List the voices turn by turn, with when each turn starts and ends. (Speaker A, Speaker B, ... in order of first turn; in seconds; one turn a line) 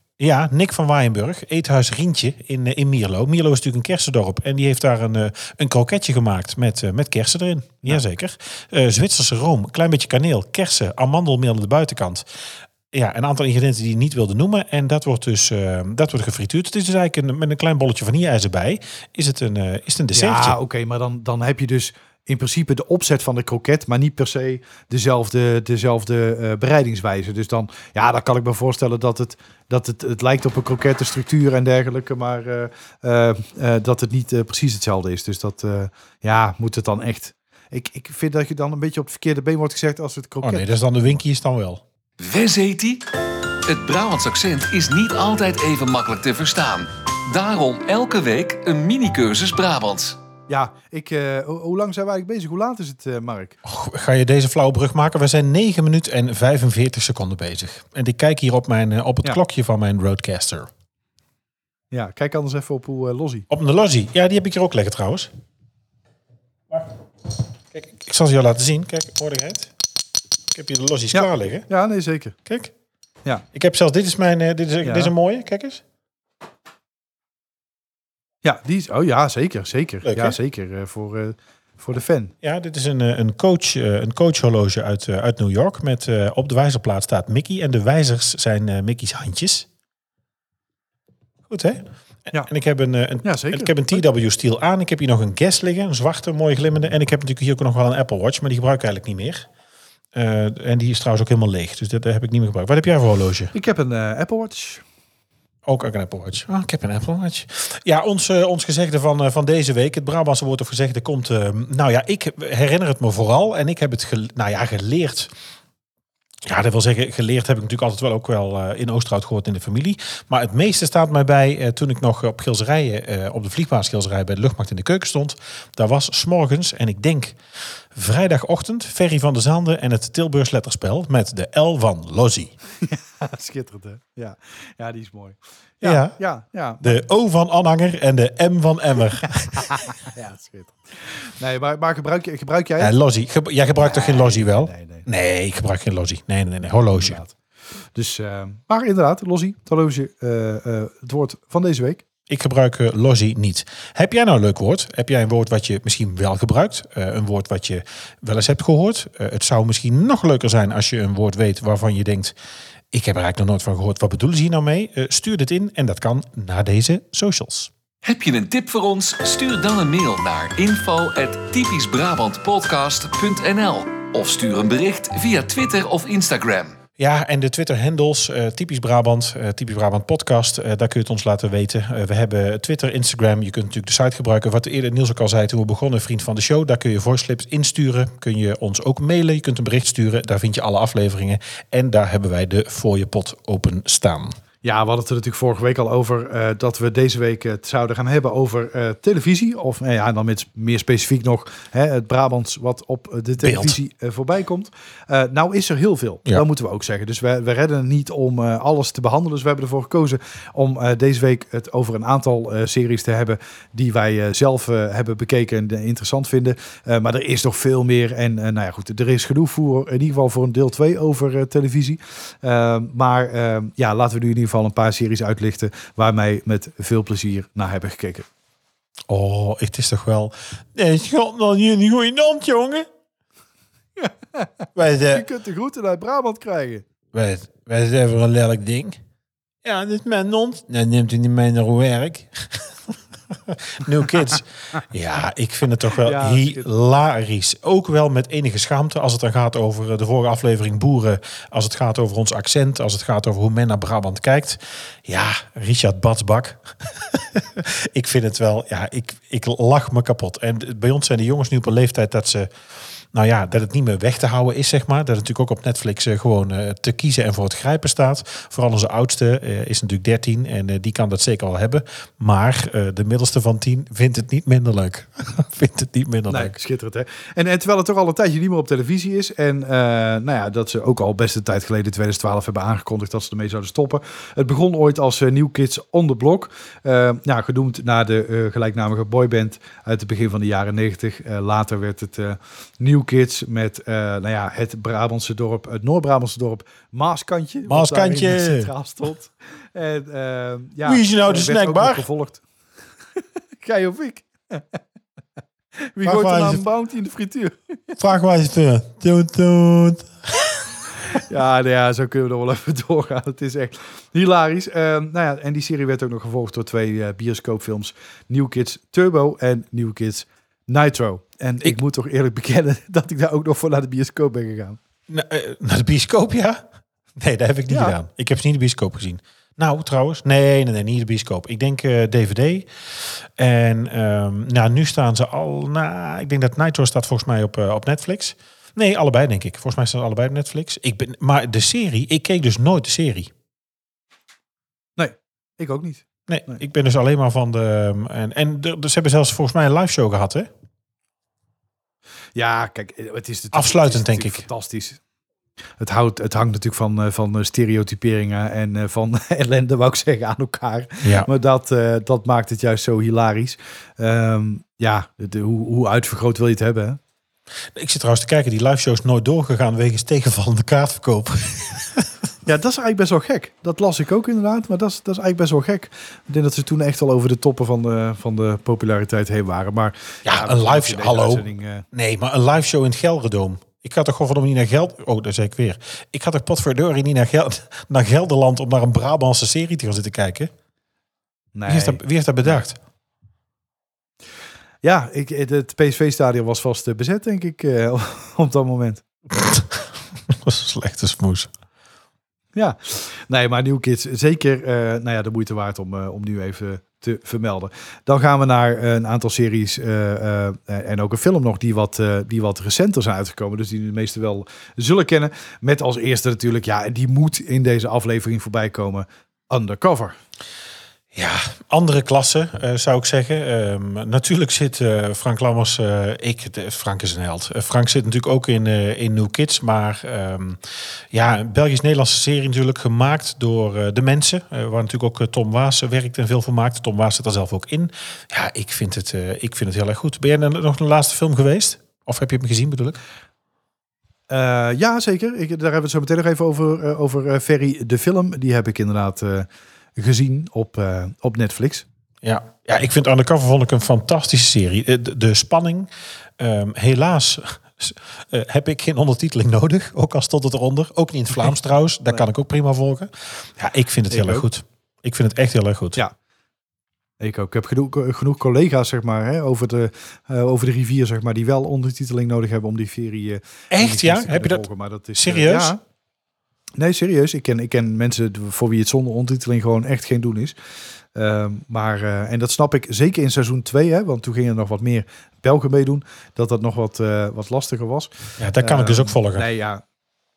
Speaker A: 0.2-12.3
Speaker A: 12.9-20.6
Speaker B: 20.1-40.6
Speaker A: 40.4-41.8
Speaker C: 42.2-43.0
Speaker C: 43.7-50.2
Speaker B: 50.5-53.6
Speaker A: 53.6-60.7
Speaker B: 61.9-63.5
Speaker A: 63.5-65.3
Speaker A: 67.7-69.7
Speaker A: 70.5-71.7
Speaker B: 71.1-72.4
Speaker A: 72.5-72.7
Speaker A: 73.5-75.8
Speaker B: 74.8-75.1
Speaker B: 78.4-82.3
Speaker A: 80.0-80.4
Speaker A: 82.4-89.7
Speaker A: 91.5-99.5
Speaker B: 93.2-94.0
Speaker A: 100.1-103.5
Speaker B: 103.5-104.8
Speaker A: 105.7-115.3
Speaker A: 116.5-132.5
Speaker B: 132.8-137.0
Speaker A: 135.8-136.2
Speaker A: 136.8-139.9
Speaker B: 139.4-142.9
Speaker A: 142.8-147.2
Speaker B: 143.8-145.1
Speaker B: 146.9-147.3
Speaker B: 147.9-152.0
Speaker A: 152.3-162.3
Speaker A: 162.9-167.7
Speaker C: 168.0-176.8
Speaker A: 177.0-194.4
Speaker B: 194.6-228.3
Speaker A: 203.4-203.8
Speaker A: 229.1-232.9
Speaker B: 234.0-236.9
Speaker A: 234.8-235.3
Speaker A: 237.1-239.0
Speaker A: 239.6-262.5
Speaker B: 246.0-246.7
Speaker A: 263.1-276.6
Speaker B: 276.3-302.4
Speaker A: 297.6-298.7
Speaker A: 300.9-302.1
Speaker B: 303.6-304.8
Speaker B: 306.0-308.0
Speaker A: 306.0-306.6
Speaker A: 308.0-310.9
Speaker B: 311.1-324.8
Speaker A: 325.1-326.6
Speaker A: 327.2-343.3
Speaker B: 327.7-327.9
Speaker B: 345.0-346.6
Speaker A: 346.3-350.5
Speaker B: 352.4-355.0
Speaker A: 353.5-354.5
Speaker B: 355.8-367.0
Speaker A: 361.0-361.3
Speaker A: 367.7-372.1
Speaker B: 372.4-381.9
Speaker A: 380.2-390.5
Speaker B: 391.6-392.0
Speaker A: 391.7-392.8
Speaker B: 394.8-399.0
Speaker A: 399.3-401.5
Speaker B: 402.6-420.2
Speaker A: 421.1-443.0
Speaker B: 444.3-451.9
Speaker A: 452.2-466.0
Speaker B: 464.1-464.4
Speaker B: 467.2-475.8
Speaker A: 473.7-475.7
Speaker B: 476.8-480.6
Speaker B: 481.1-489.8
Speaker A: 488.4-489.5